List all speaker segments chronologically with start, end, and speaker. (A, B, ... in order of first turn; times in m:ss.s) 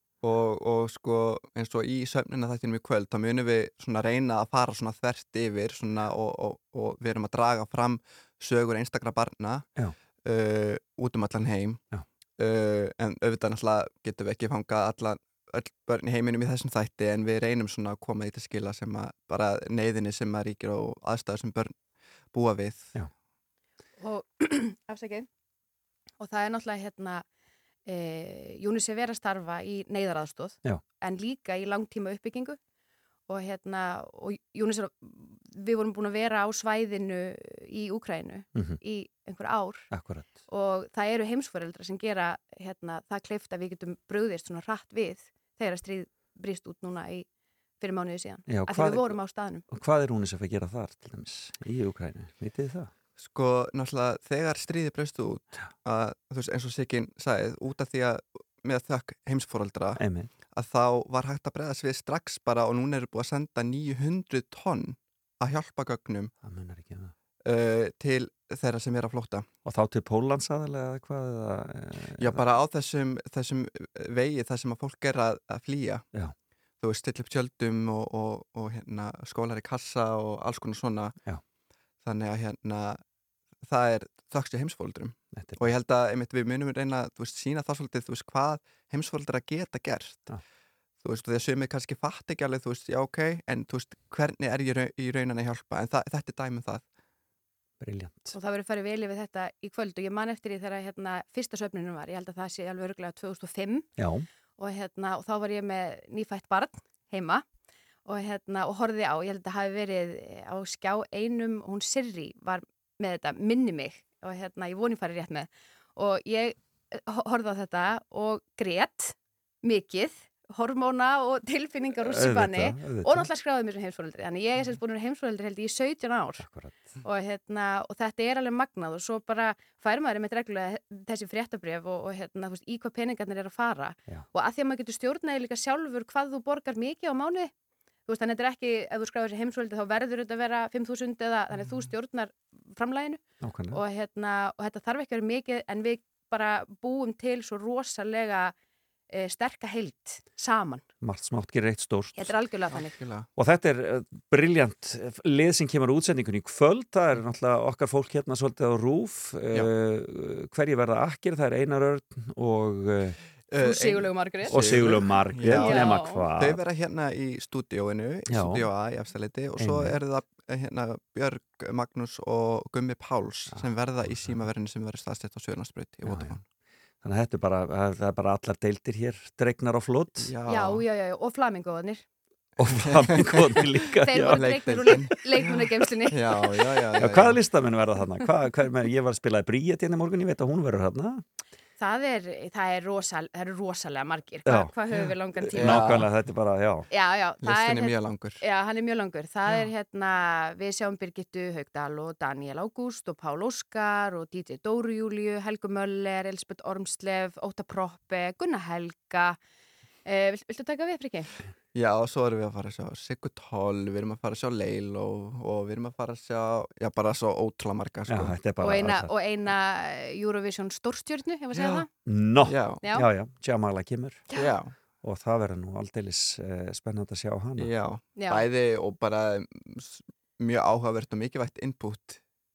0:00.2-0:09.6 A
0:10.2-0:11.8 A
0:12.4-0:21.7 A
0:22.3-0:22.9 A
0:24.0-0:25.2 B
0:26.2-0:27.2 B
0:27.8-0:32.6 B
0:33.3-0:39.9 B
0:39.9-0:40.3 C
0:40.5-0:47.3 B
0:47.8-0:49.6 B
0:48.5-0:49.1 C
0:49.7-0:52.9 C
0:53.2-1:06.3 A
1:00.0-1:00.3 C
1:06.4-1:07.1 C
1:07.4-1:09.4 A
1:09.6-1:12.4 C
1:12.2-1:16.0 A
1:16.8-1:21.1 A
1:22.0-1:23.0 A
1:23.6-1:30.3 A
1:25.4-1:25.7 C
1:31.0-1:36.8 A
1:37.8-1:38.4 C
1:38.3-1:43.9 B
1:44.0-1:44.2 C
1:44.6-1:47.4 B
1:48.0-2:06.4 B
2:02.0-2:03.3 C
2:06.4-2:06.9 C
2:07.0-2:17.5 B
2:18.1-2:28.5 B
2:23.4-2:23.8 C
2:29.1-2:30.8 B
2:31.0-2:32.4 C
2:32.1-2:32.9 B
2:32.7-2:33.3 A
2:33.4-2:43.2 C
2:43.5-2:56.4 A
2:43.6-2:44.7 B
2:44.5-2:46.6 C
2:45.6-2:46.2 B
2:48.3-2:48.6 C
2:49.6-2:50.0 C
2:53.5-2:54.3 C
2:56.1-2:56.3 C
2:57.0-3:00.3 C
3:00.2-3:00.8 A
3:00.5-3:02.0 B
3:02.6-3:05.0 C
3:02.8-3:03.7 A
3:04.0-3:06.6 B
3:04.3-3:07.4 A
3:07.0-3:11.2 C
3:11.8-3:16.0 B
3:15.0-3:16.1 A
3:15.4-3:16.9 C
3:16.9-3:29.4 B
3:17.4-3:18.4 A
3:30.0-3:31.3 B
3:31.7-3:38.5 A
3:38.1-3:39.1 C
3:38.6-3:41.9 B
3:41.5-3:41.8 A
3:42.0-3:44.2 C
3:42.4-3:42.8 A
3:42.8-3:43.1 B
3:44.3-3:44.7 A
3:45.0-3:47.7 C
3:47.6-3:52.2 A
3:48.1-3:48.4 B